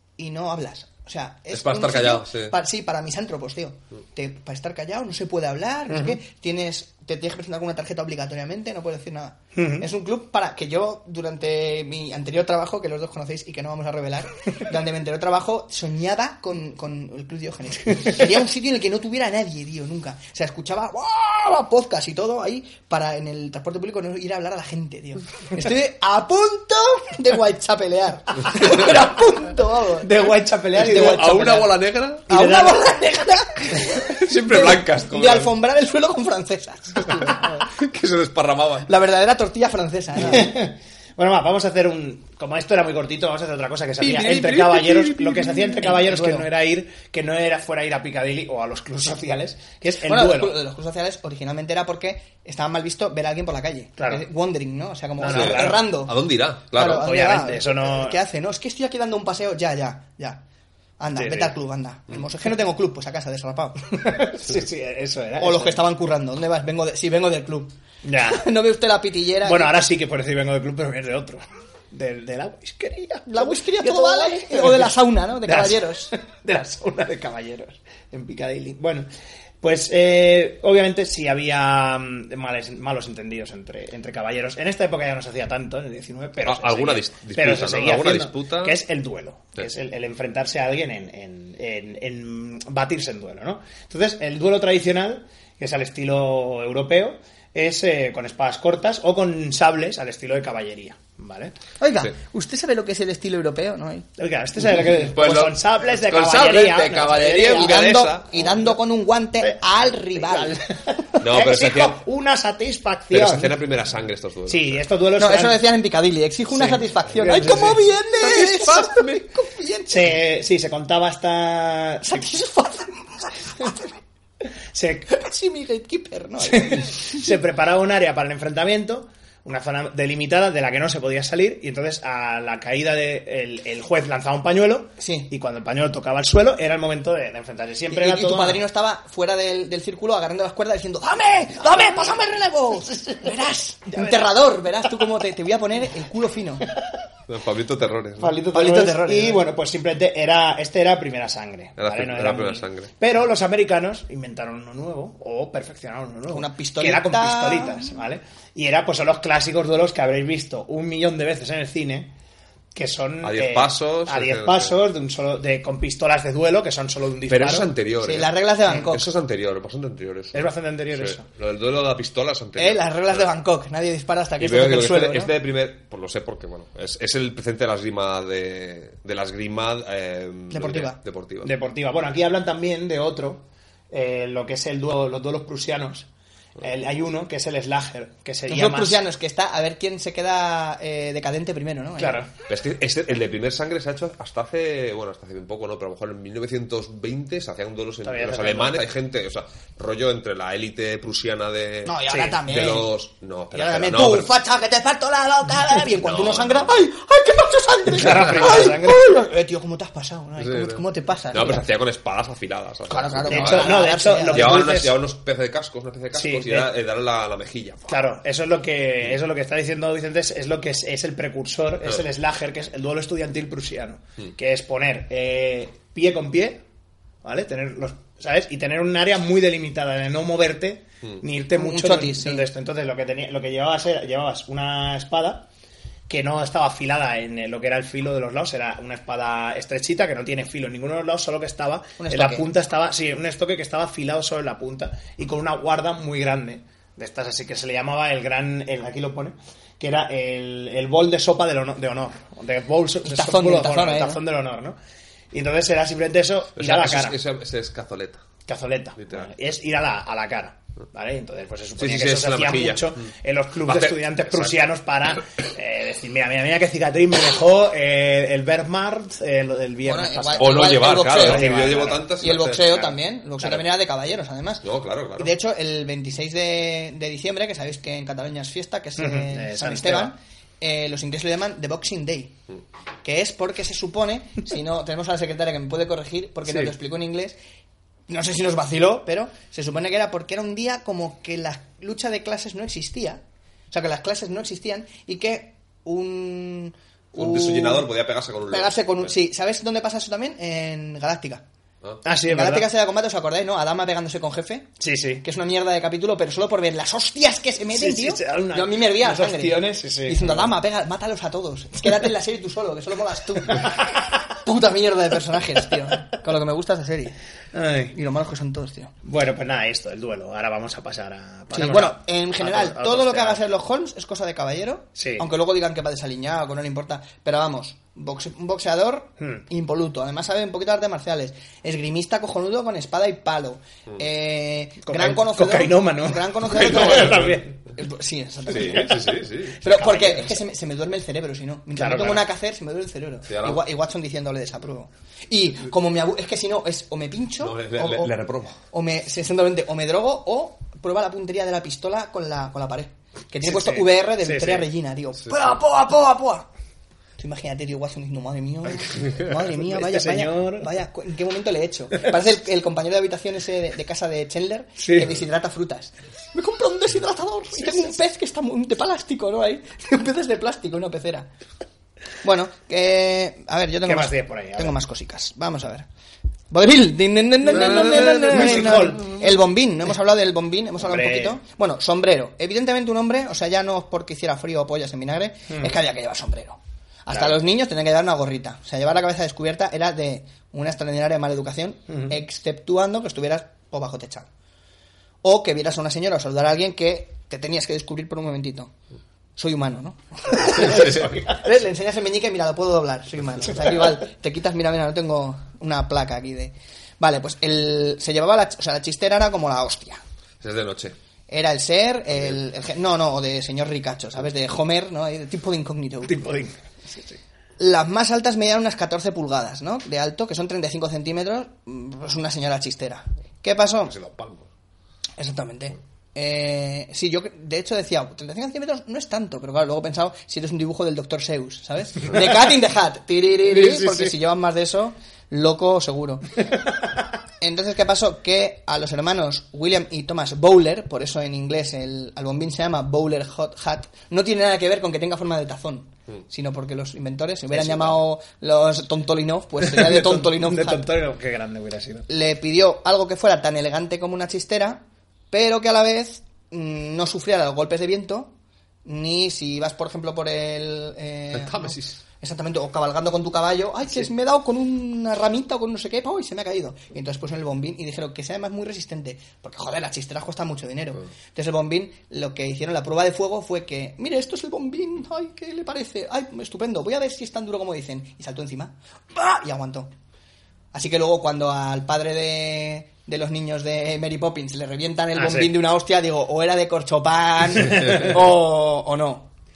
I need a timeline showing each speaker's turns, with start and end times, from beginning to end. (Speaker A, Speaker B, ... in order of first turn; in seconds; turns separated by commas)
Speaker A: 0.2-31.6, Speaker B: 1.5-2.5, Speaker C: 5.9-6.2, Speaker C: 9.5-9.9, Speaker C: 30.0-31.7, Speaker B: 30.8-32.3, Speaker C: 32.3-32.9, Speaker A: 32.3-37.7, Speaker B: 34.0-35.5, Speaker B: 37.1-38.9, Speaker A: 38.9-40.5, Speaker C: 40.2-50.6, Speaker B: 44.0-45.9, Speaker A: 45.5-46.5, Speaker A: 50.0-56.2, Speaker C: 54.0-54.2, Speaker C: 55.2-55.9, Speaker B: 55.2-57.1, Speaker A: 56.7-60.4, Speaker C: 56.8-58.2, Speaker A: 61.0-64.0, Speaker C: 61.1-61.5, Speaker C: 63.9-65.8, Speaker A: 65.4-69.7, Speaker C: 68.0-68.5, Speaker C: 69.4-79.1, Speaker A: 73.3-76.1, Speaker C: 79.6-101.5, Speaker B: 86.4-88.8, Speaker A: 101.8-104.1, Speaker C: 104.2-108.7, Speaker B: 104.9-108.3, Speaker A: 107.5-110.6, Speaker C: 109.4-113.6, Speaker B: 111.2-112.0, Speaker B: 113.1-114.8, Speaker C: 114.5-115.7, Speaker A: 115.2-120.1, Speaker C: 116.5-117.9, Speaker B: 118.2-119.2, Speaker C: 119.9-122.3, Speaker A: 122.0-123.9, Speaker C: 124.7-125.1, Speaker A: 125.1-127.2, Speaker C: 126.4-138.6, Speaker A: 135.0-135.3, Speaker A: 137.9-146.7, Speaker C: 143.9-144.3, Speaker B: 147.3-148.4, Speaker C: 148.2-162.1, Speaker A: 148.5-149.4, Speaker B: 151.8-152.9, Speaker A: 156.3-157.9, Speaker C: 162.7-167.7, Speaker B: 163.2-164.8, Speaker B: 167.3-173.3, Speaker A: 168.0-169.1, Speaker C: 170.3-171.2, Speaker A: 172.6-175.3, Speaker B: 174.4-181.5, Speaker A: 180.5-181.0, Speaker C: 181.4-186.1, Speaker C: 186.6-189.0, Speaker A: 188.5-192.2, Speaker C: 192.0-192.3, Speaker B: 192.5-204.3, Speaker C: 198.0-198.9, Speaker A: 201.9-202.9, Speaker C: 202.1-202.4, Speaker A: 203.5-211.7, Speaker B: 205.9-206.9, Speaker C: 207.9-209.1, Speaker B: 210.4-218.0, Speaker A: 212.9-214.7, Speaker C: 213.3-215.0, Speaker C: 216.1-216.7, Speaker C: 217.9-226.6, Speaker C: 227.2-235.5, Speaker A: 231.5-232.4, Speaker C: 236.1-254.8, Speaker A: 242.0-242.5, Speaker A: 253.0-254.2, Speaker C: 255.3-257.2, Speaker B: 256.6-258.2, Speaker C: 258.5-272.0, Speaker B: 259.0-259.3, Speaker B: 261.8-263.1, Speaker B: 263.6-264.6, Speaker A: 269.8-274.6, Speaker B: 270.4-272.9, Speaker B: 274.6-275.3, Speaker A: 275.2-282.4, Speaker C: 279.0-280.1, Speaker A: 283.0-287.4, Speaker C: 286.5-286.7, Speaker A: 288.1-297.9, Speaker B: 297.1-299.1, Speaker A: 298.5-301.4, Speaker C: 302.0-302.7, Speaker A: 302.2-304.7, Speaker C: 304.8-305.2, Speaker A: 305.2-317.1, Speaker C: 307.7-310.4, Speaker C: 317.5-317.9, Speaker A: 317.9-318.9, Speaker C: 319.0-323.4, Speaker A: 321.5-339.1, Speaker C: 325.0-325.2, Speaker C: 334.9-337.6, Speaker B: 336.7-337.4, Speaker B: 338.5-339.6, Speaker C: 338.5-339.0, Speaker A: 339.6-356.4, Speaker C: 339.7-340.4, Speaker C: 341.8-342.2, Speaker B: 343.3-343.6, Speaker B: 347.4-348.6, Speaker C: 353.4-354.7, Speaker A: 357.2-371.3, Speaker C: 359.6-360.7, Speaker C: 364.8-365.2, Speaker C: 367.6-367.9, Speaker A: 372.2-375.9, Speaker C: 373.8-374.8, Speaker A: 376.5-394.3, Speaker C: 377.4-379.2, Speaker B: 377.5-379.0, Speaker C: 380.8-381.4, Speaker C: 385.5-385.7, Speaker C: 387.1-387.4, Speaker C: 391.9-392.1, Speaker A: 395.2-398.7, Speaker A: 399.4-410.0, Speaker C: 400.5-401.3, Speaker B: 400.7-401.1, Speaker B: 410.4-410.9, Speaker A: 411.3-416.2, Speaker C: 416.1-417.2, Speaker A: 417.6-423.9, Speaker B: 423.9-424.5, Speaker A: 425.2-436.4, Speaker B: 433.5-434.1, Speaker A: 437.4-450.9, Speaker C: 449.6-452.1, Speaker A: 452.1-458.3, Speaker A: 458.8-479.9, Speaker B: 461.3-462.0, Speaker A: 480.7-489.3, Speaker C: 485.1-485.6, Speaker C: 487.6-488.2